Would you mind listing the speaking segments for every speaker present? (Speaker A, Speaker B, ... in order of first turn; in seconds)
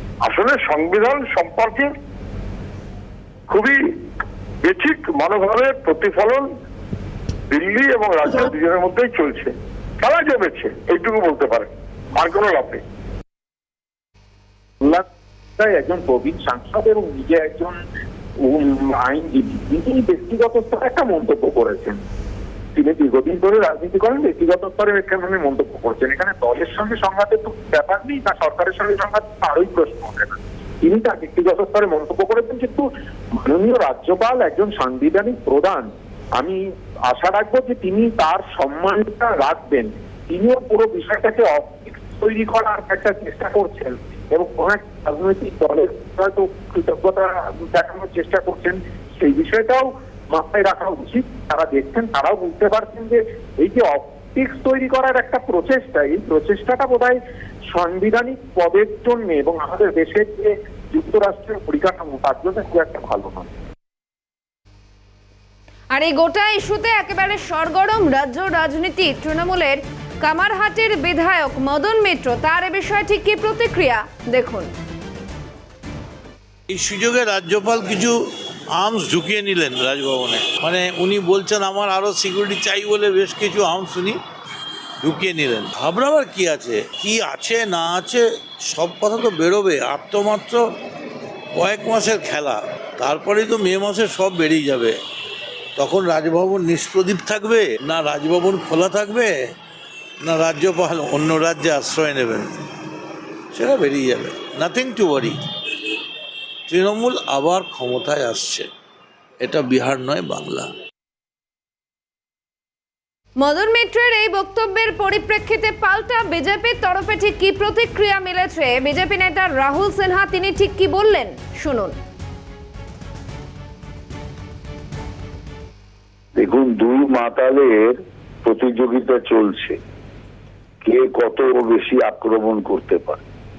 Speaker A: 0.2-1.9, 3.5-3.8, 4.7-6.5, 7.5-12.8
Speaker B: 15.6-17.8, 18.4-22.0, 22.8-63.5
Speaker C: 65.9-74.7, 113.4-122.0
Speaker D: 76.7-78.2, 78.7-84.2, 85.0-90.6, 91.6-95.0, 95.8-99.4, 100.2-102.5, 103.5-105.4, 106.7-108.7, 109.4-110.7
Speaker E: 126.4-129.8, 130.8-133.2